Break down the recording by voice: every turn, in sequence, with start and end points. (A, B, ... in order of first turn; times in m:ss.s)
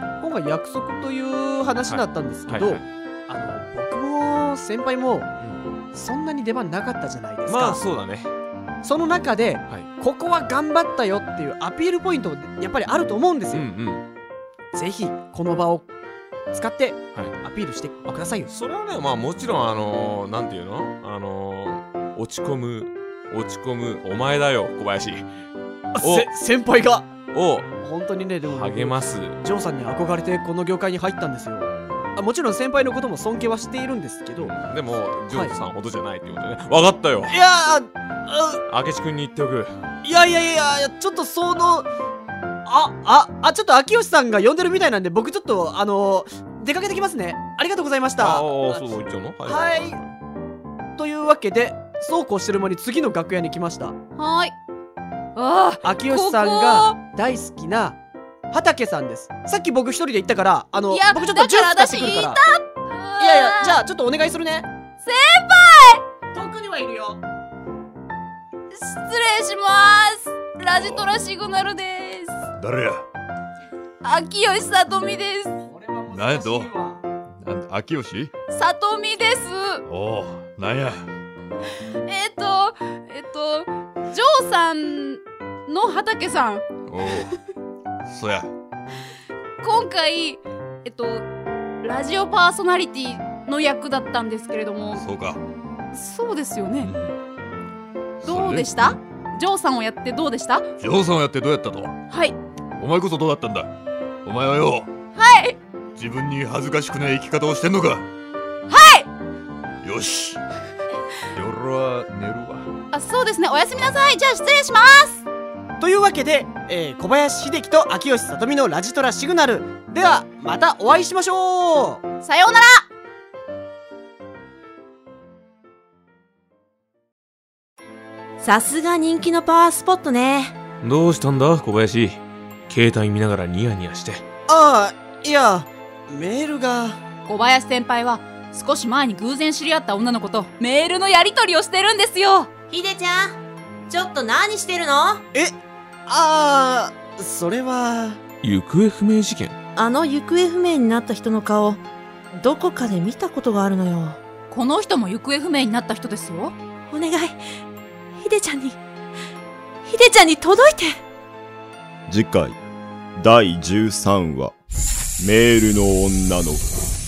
0:00.2-0:05.3 A
0:01.9-0:02.8 B
0:05.9-0:07.8 A
0:07.5-0:08.3 B
0:08.8-0:13.7 A
0:13.5-0:14.0 B
0:14.7-0:15.9 A
0:16.5-0:18.5 A
0:18.5-0:25.3 B
0:25.9-0:27.2 A
0:26.0-0:26.3 B
0:27.3-0:27.7 B
0:27.8-0:34.6 A
0:28.4-0:29.4 B
0:34.4-0:37.4 B
0:37.3-0:38.6 A
0:38.7-0:39.8 B
0:40.0-0:41.9 A
0:42.7-0:50.0 A
0:48.2-0:50.1 B
0:51.0-0:54.0 A
0:54.2-0:54.6 C
0:55.4-0:57.0 C
0:55.8-0:58.0 A
0:58.5-1:02.4 A
1:00.9-1:03.8 C
1:03.2-1:04.7 A
1:05.0-1:06.0 C
1:06.3-1:07.2 A
1:08.7-1:12.4 C
1:10.8-1:11.1 D
1:12.6-1:13.0 D
1:14.0-1:15.5 C
1:15.6-1:17.0 A
1:16.1-1:16.7 D
1:17.4-1:18.3 D
1:18.5-1:19.8 C
1:19.9-1:21.1 D
1:22.0-1:26.6 C
1:26.9-1:27.3 D
1:28.1-1:28.5 D
1:29.6-1:31.3 C
1:31.8-1:35.0 C
1:34.9-1:35.4 D
1:35.9-1:36.9 C
1:36.8-1:37.2 D
1:38.2-1:39.0 D
1:38.2-1:40.7 C
1:40.8-1:42.0 D
1:42.1-1:42.4 C
1:42.8-1:43.7 D
1:44.2-1:44.9 D
1:45.2-1:45.6 C
1:46.0-1:48.1 D
1:48.7-1:49.1 C
1:49.8-1:50.4 D
1:51.3-1:52.7 D
1:52.9-1:55.2 C
1:55.8-2:02.0 A
2:02.2-2:02.9 C
2:08.4-2:10.6 E
2:10.8-2:14.2 B
2:14.5-2:17.0 A
2:17.3-2:22.5 C
2:22.7-2:23.4 E
2:23.9-2:25.2 E
2:25.3-2:28.2 A
2:28.4-2:29.6 B
2:29.8-2:31.8 E
2:32.3-2:34.2 E
2:34.5-2:36.6 C
2:36.9-2:37.4 E
2:38.2-2:38.8 E
2:39.9-2:41.0 E
2:42.1-2:42.6 F
2:43.2-2:44.5 F
2:45.2-2:46.7 F